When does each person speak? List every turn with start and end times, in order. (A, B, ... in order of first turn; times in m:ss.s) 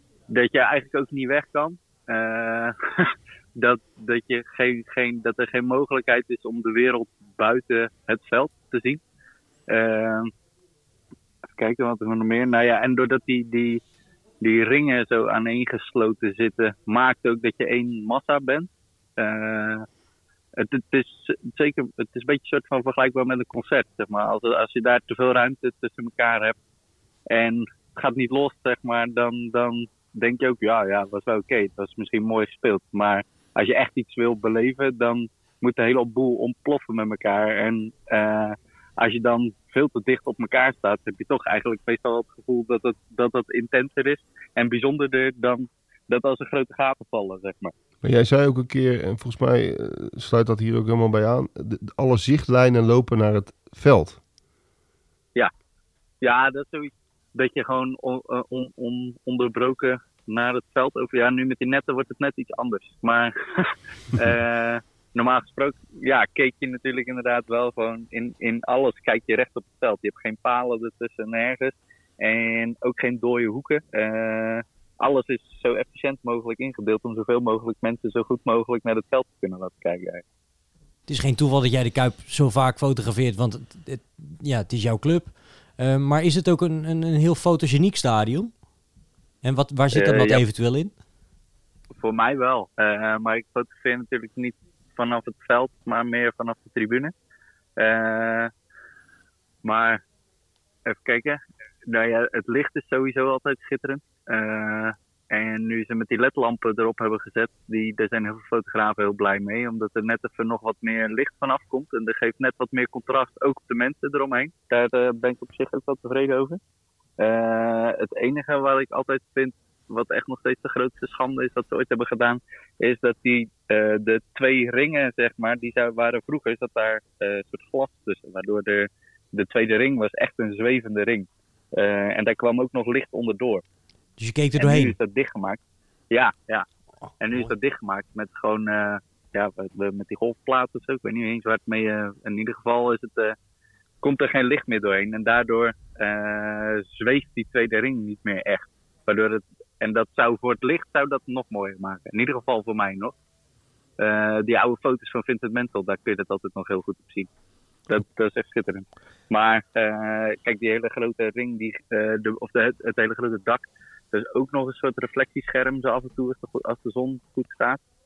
0:00.3-0:09.0 A
0:09.7-0:10.3 A
0:11.5-0:13.8 A
0:14.4-0:19.8 A
0:20.6-0:26.6 A
0:27.3-0:47.7 A
0:48.0-0:54.2 B
0:56.2-1:20.2 A
1:21.1-1:28.6 C
1:29.4-1:30.9 C
1:29.9-1:30.4 A
1:32.0-1:37.1 A
1:37.8-1:38.5 A
1:39.6-1:40.0 A
1:40.8-1:56.6 A
1:57.2-2:13.6 A
2:14.2-2:15.0 C
2:14.6-2:15.6 A
2:16.1-2:16.6 A
2:17.1-2:17.5 C
2:17.2-2:23.3 A
2:24.0-2:33.1 A
2:34.0-2:37.3 A
2:37.9-2:47.8 A